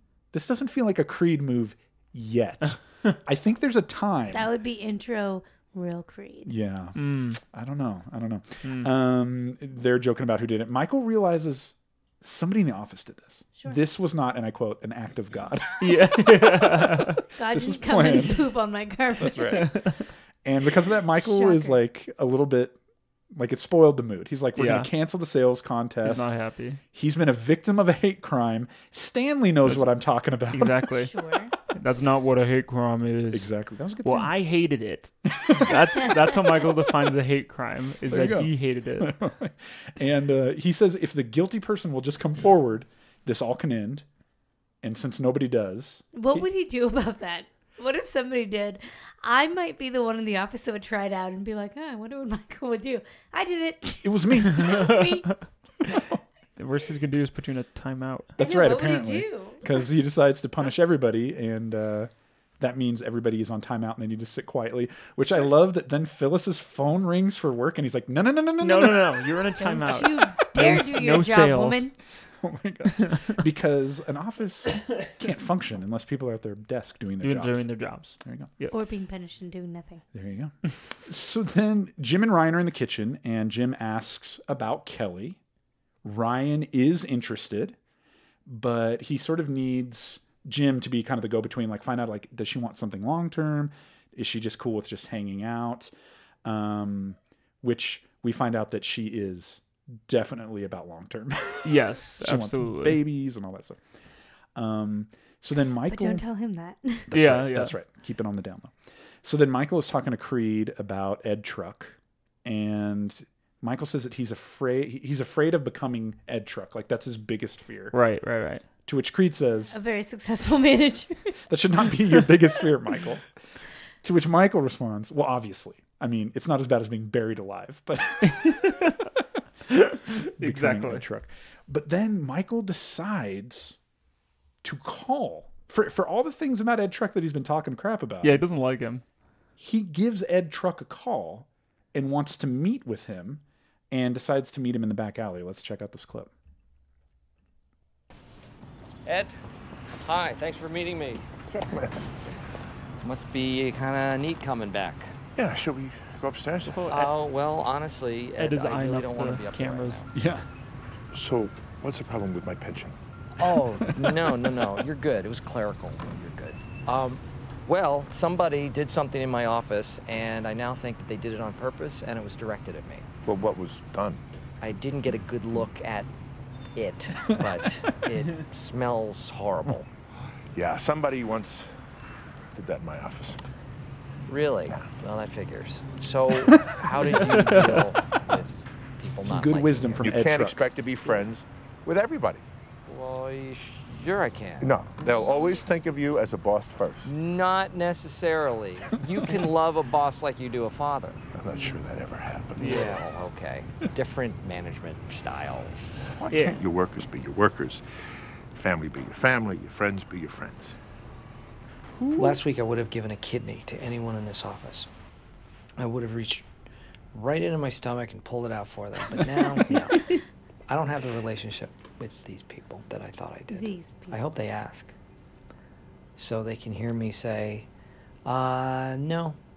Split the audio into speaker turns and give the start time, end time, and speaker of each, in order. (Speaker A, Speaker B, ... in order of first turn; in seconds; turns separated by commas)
Speaker A: 0.3-4.5, Speaker B: 4.3-6.5, Speaker A: 6.5-18.5, Speaker C: 7.0-7.4, Speaker C: 8.6-8.9, Speaker C: 15.8-17.2, Speaker B: 17.4-19.8, Speaker A: 19.2-19.9, Speaker C: 19.5-20.0, Speaker A: 20.4-22.8, Speaker B: 21.1-21.8, Speaker A: 23.3-26.3, Speaker C: 24.6-24.9, Speaker C: 26.0-26.8, Speaker A: 26.9-31.0, Speaker C: 30.5-31.1, Speaker B: 30.9-31.5, Speaker C: 31.6-33.5, Speaker A: 33.3-34.3, Speaker C: 34.0-39.2, Speaker A: 35.3-36.2, Speaker A: 38.1-44.1, Speaker A: 44.8-46.4, Speaker B: 46.1-55.3, Speaker A: 54.0-55.0, Speaker C: 54.6-55.1, Speaker A: 55.9-56.2, Speaker C: 56.6-58.4, Speaker A: 58.4-69.4, Speaker B: 58.4-59.6, Speaker C: 68.6-71.9, Speaker B: 69.6-71.9, Speaker A: 72.4-77.7, Speaker C: 73.0-73.3, Speaker C: 77.2-78.7, Speaker A: 78.2-78.5, Speaker B: 78.7-80.0, Speaker A: 80.1-80.5, Speaker A: 81.1-85.4, Speaker A: 86.0-87.8, Speaker A: 88.5-95.9, Speaker A: 96.5-103.8, Speaker C: 101.6-103.0, Speaker A: 104.5-106.2, Speaker B: 105.9-107.1, Speaker A: 107.1-118.0, Speaker C: 107.1-107.7, Speaker C: 117.9-118.6, Speaker A: 118.9-119.8, Speaker B: 119.7-121.3, Speaker A: 121.5-123.2, Speaker A: 124.0-129.0, Speaker C: 128.3-129.0, Speaker C: 129.7-131.1, Speaker A: 130.4-133.8, Speaker A: 134.6-138.4, Speaker C: 138.2-139.0, Speaker A: 139.6-146.3, Speaker D: 149.1-149.4, Speaker D: 150.0-151.2, Speaker E: 151.5-152.1, Speaker D: 153.0-155.1, Speaker E: 155.4-156.9, Speaker C: 156.7-157.2, Speaker D: 156.9-160.1, Speaker C: 158.4-160.0, Speaker A: 160.1-160.4, Speaker E: 161.1-163.0, Speaker D: 163.4-173.1, Speaker E: 173.2-174.2, Speaker D: 174.6-176.1, Speaker D: 176.7-179.9, Speaker E: 180.5-181.7, Speaker E: 182.5-183.4, Speaker D: 184.3-190.2, Speaker C: 187.1-187.9, Speaker A: 189.2-190.6, Speaker E: 190.0-192.4, Speaker D: 192.9-194.8, Speaker E: 194.6-197.1, Speaker B: 195.1-195.6, Speaker D: 197.1-201.2, Speaker E: 201.3-203.0, Speaker C: 202.6-202.9, Speaker D: 202.6-206.1, Speaker E: 206.2-207.8, Speaker C: 206.3-206.6, Speaker E: 208.5-210.8, Speaker C: 211.9-212.4, Speaker D: 212.2-214.9, Speaker D: 215.8-216.5, Speaker D: 217.1-220.1, Speaker C: 219.6-220.1, Speaker D: 220.7-224.9, Speaker B: 223.5-224.2, Speaker D: 226.2-227.7, Speaker D: 228.2-229.4